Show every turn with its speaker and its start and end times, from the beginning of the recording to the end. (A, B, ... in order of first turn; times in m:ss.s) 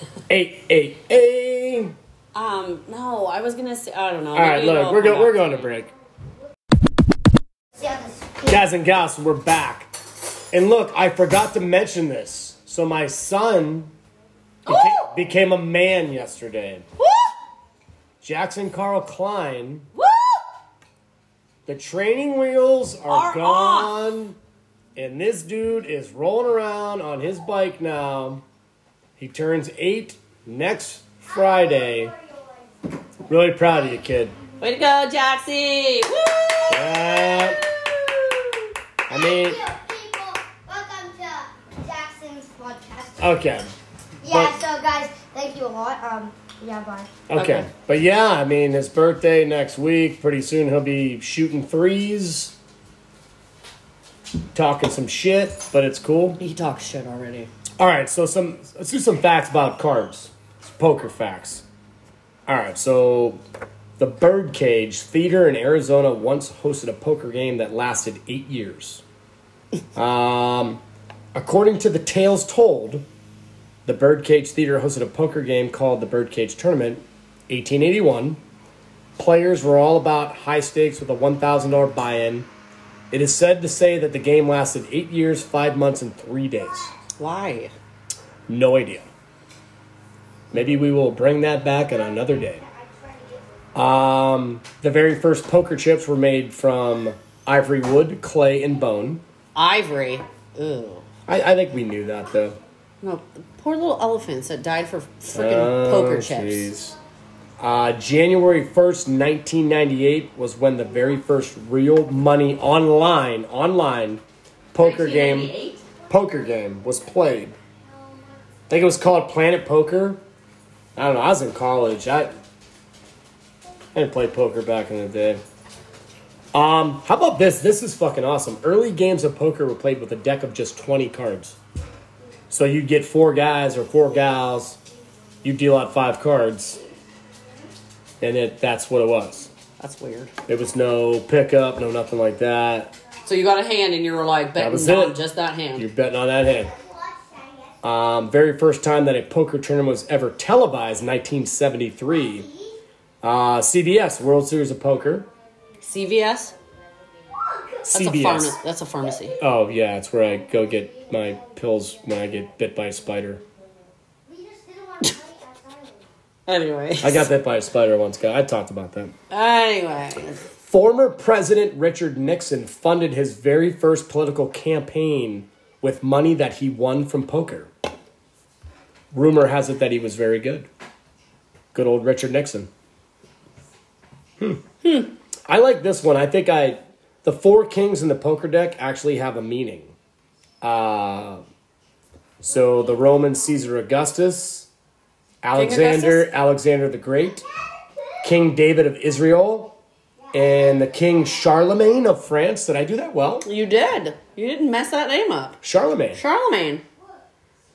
0:00.3-0:01.9 A
0:02.3-0:05.7 B
0:04.3-0:05.9 A
0:07.8-0:08.6 C
0:08.4-0:09.9 A
0:10.5-0:13.9 A
0:14.6-0:16.8 A
0:14.7-0:15.1 B
0:17.0-0:17.3 B
0:18.2-0:19.9 A
0:19.9-0:20.4 B
0:21.6-0:24.4 A
0:23.1-0:24.0 B
0:25.0-0:28.4 A
0:29.2-0:32.1 A
0:31.3-0:32.7 C
0:33.3-0:34.4 A
0:34.6-0:38.6 B
0:36.7-0:37.6 A
0:39.1-0:39.6 A
0:39.1-0:43.4 C
0:43.2-0:43.7 A
0:44.2-0:47.1 C
0:44.2-0:44.6 A
0:47.3-0:52.5 A
0:47.3-0:47.7 B
0:54.5-0:56.4 A
0:56.4-0:57.5 B
0:57.8-1:01.6 A
1:02.5-1:03.4 A
1:04.0-1:09.0 A
1:09.9-1:10.8 A
1:11.3-1:13.0 A
1:13.8-1:18.4 A
1:19.2-1:22.5 A
1:23.1-1:26.9 A
1:27.2-1:27.7 B
1:28.5-1:29.1 A
1:30.5-1:32.6 A
1:32.6-1:33.4 C
1:33.7-1:39.2 A
1:39.5-1:41.0 B
1:41.3-1:42.6 A
1:43.0-1:46.7 B
1:45.3-1:47.0 A
1:47.6-1:55.5 A
1:54.8-1:55.8 B
1:56.1-1:57.6 A
1:58.7-2:00.2 A
2:01.0-2:02.4 A
2:03.9-2:05.4 A
2:06.5-2:11.6 A
2:12.5-2:14.8 A
2:15.4-2:16.8 A
2:18.2-2:19.5 A
2:19.8-2:20.3 B
2:20.5-2:22.9 A
2:23.2-2:25.9 B
2:24.6-2:25.2 A
2:25.8-2:26.7 A
2:26.7-2:27.7 C
2:27.8-2:32.5 A
2:33.2-2:35.3 A
2:35.8-2:36.5 B
2:37.3-2:37.7 C
2:37.8-2:38.6 A
2:37.9-2:39.4 B
2:39.4-2:43.4 A
2:40.8-2:41.4 C
2:44.2-2:46.1 C
2:46.5-2:47.3 B
2:47.0-2:49.1 A
2:49.3-2:50.4 B
2:50.6-2:57.7 A
2:59.1-3:00.7 A
3:01.7-3:02.7 A
3:04.8-3:05.1 B
3:05.5-3:09.9 A
3:10.6-3:11.4 A
3:12.4-3:14.7 A
3:15.4-3:17.4 A
3:15.5-3:16.3 B
3:18.2-3:19.8 A
3:20.3-3:23.5 A
3:23.4-3:25.6 B
3:25.6-3:26.2 A
3:26.1-3:26.8 B